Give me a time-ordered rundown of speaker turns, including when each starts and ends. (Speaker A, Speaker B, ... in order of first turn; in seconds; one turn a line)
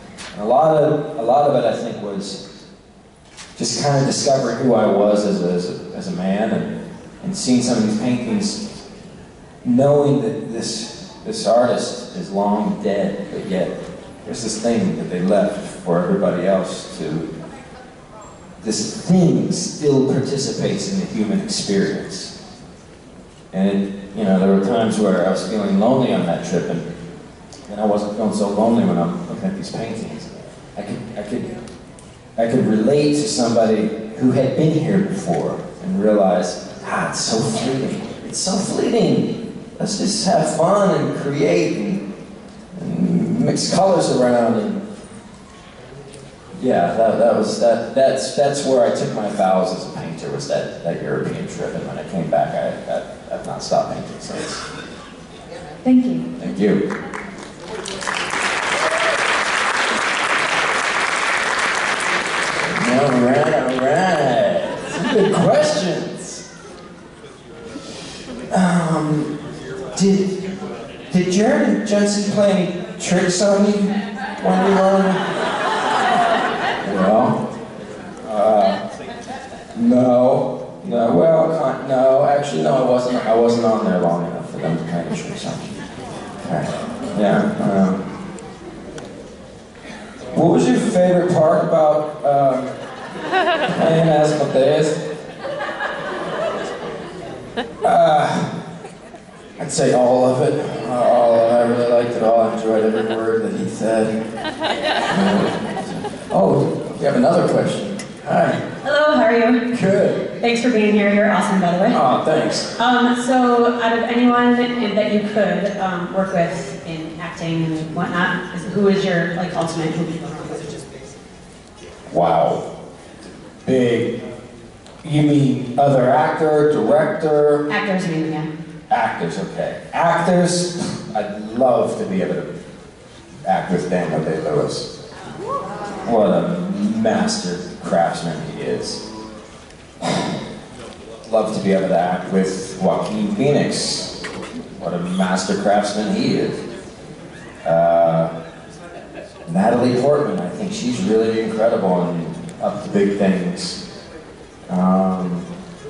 Speaker A: 0.3-2.4
Speaker A: 3.5-6.7
Speaker A: 7.2-8.7
Speaker A: 9.6-17.3
Speaker A: 18.6-22.3
Speaker A: 23.5-26.9
Speaker A: 27.7-31.6
Speaker A: 32.4-42.0
Speaker A: 42.8-44.8
Speaker A: 46.5-54.6
Speaker B: 55.8-56.3
Speaker A: 56.4-56.8
Speaker A: 62.7-66.4
Speaker A: 68.5-69.3
Speaker A: 69.9-70.5
Speaker A: 71.1-75.3
Speaker A: 76.8-77.4
Speaker A: 78.2-78.8
Speaker A: 79.7-85.8
Speaker A: 86.4-88.0
Speaker A: 90.3-92.7
Speaker A: 93.7-95.0
Speaker A: 97.8-98.5
Speaker A: 99.6-104.2
Speaker A: 105.1-108.6
Speaker B: 108.8-109.6
Speaker A: 109.7-110.2
Speaker B: 110.4-112.0
Speaker A: 111.9-112.7
Speaker B: 112.8-120.8
Speaker A: 122.1-122.6
Speaker A: 123.6-124.2
Speaker A: 125.0-127.6
Speaker B: 127.7-128.5
Speaker A: 128.9-132.5
Speaker A: 133.4-134.9
Speaker A: 136.0-139.0
Speaker A: 140.0-140.3
Speaker A: 141.2-144.1
Speaker A: 144.8-146.6
Speaker A: 147.6-148.3
Speaker A: 149.5-153.8
Speaker A: 154.7-155.5